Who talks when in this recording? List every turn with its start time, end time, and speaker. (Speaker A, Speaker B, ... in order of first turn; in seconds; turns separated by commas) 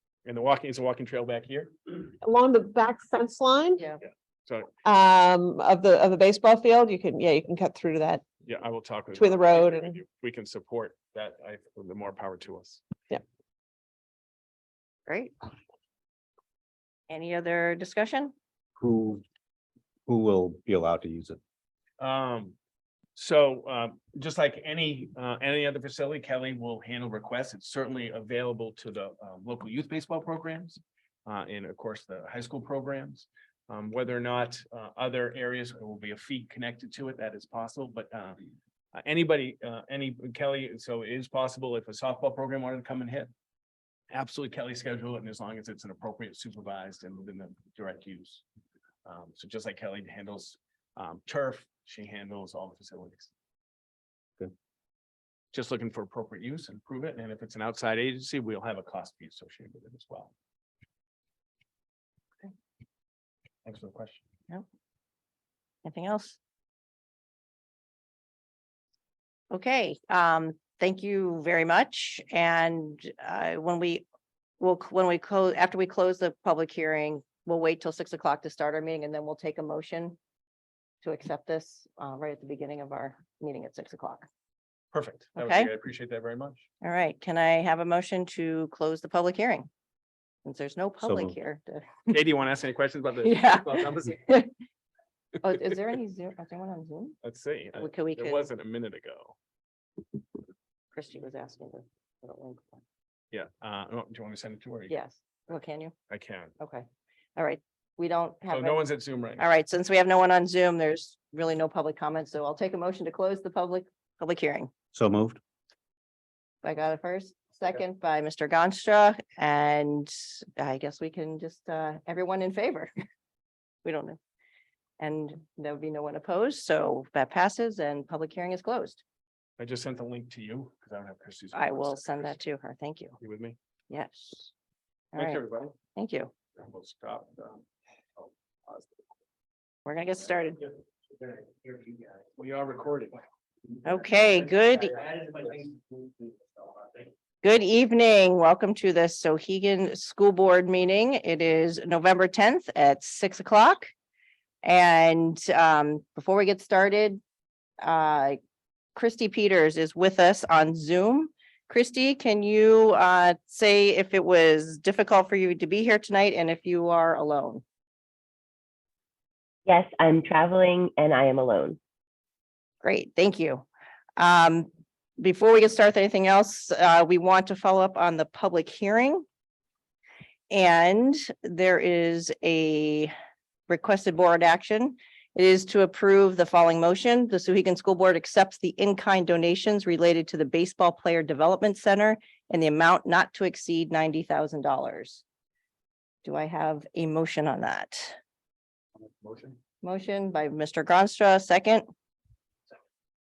Speaker A: 0.3-1.7, Speaker B: 2.2-3.8, Speaker B: 4.8-8.2, Speaker A: 8.4-12.8, Speaker B: 9.1-10.0, Speaker C: 15.1-15.3, Speaker C: 17.1-18.3, Speaker D: 18.8-19.2, Speaker D: 20.1-21.4, Speaker A: 22.0-22.6, Speaker A: 23.2-43.3, Speaker A: 44.1-48.4, Speaker A: 49.0-53.3, Speaker A: 55.5-60.3, Speaker A: 63.6-64.2, Speaker C: 65.8-66.4, Speaker C: 69.5-74.0, Speaker C: 74.6-80.2, Speaker C: 81.0-84.3, Speaker A: 84.9-86.7, Speaker C: 85.4-85.7, Speaker C: 86.8-89.7, Speaker C: 90.5-91.9, Speaker D: 91.0-91.4, Speaker A: 92.1-94.2, Speaker C: 93.2-94.5, Speaker C: 95.4-97.2, Speaker A: 97.2-99.4, Speaker C: 97.8-98.5, Speaker C: 101.0-102.8, Speaker A: 103.3-105.0, Speaker C: 104.9-105.9, Speaker A: 106.1-106.5, Speaker C: 106.6-108.8, Speaker A: 108.5-109.5, Speaker C: 109.4-114.7, Speaker D: 114.9-115.4, Speaker C: 116.6-122.9, Speaker C: 123.8-124.2, Speaker C: 125.0-129.0, Speaker A: 129.6-132.4, Speaker C: 131.5-133.2, Speaker A: 133.2-133.6, Speaker C: 133.9-134.5, Speaker C: 135.1-135.4, Speaker A: 135.2-135.8, Speaker C: 135.9-136.3, Speaker A: 136.6-137.6, Speaker A: 138.2-139.0, Speaker C: 139.9-140.6, Speaker A: 141.2-143.2, Speaker C: 143.8-144.9, Speaker A: 144.9-146.1, Speaker C: 147.4-153.9, Speaker C: 154.6-157.2, Speaker C: 157.8-158.4, Speaker C: 159.0-167.6, Speaker E: 169.7-171.8, Speaker C: 172.8-173.6, Speaker C: 174.2-179.2, Speaker C: 180.5-183.1, Speaker C: 183.7-195.2, Speaker C: 196.2-198.2, Speaker C: 199.8-201.8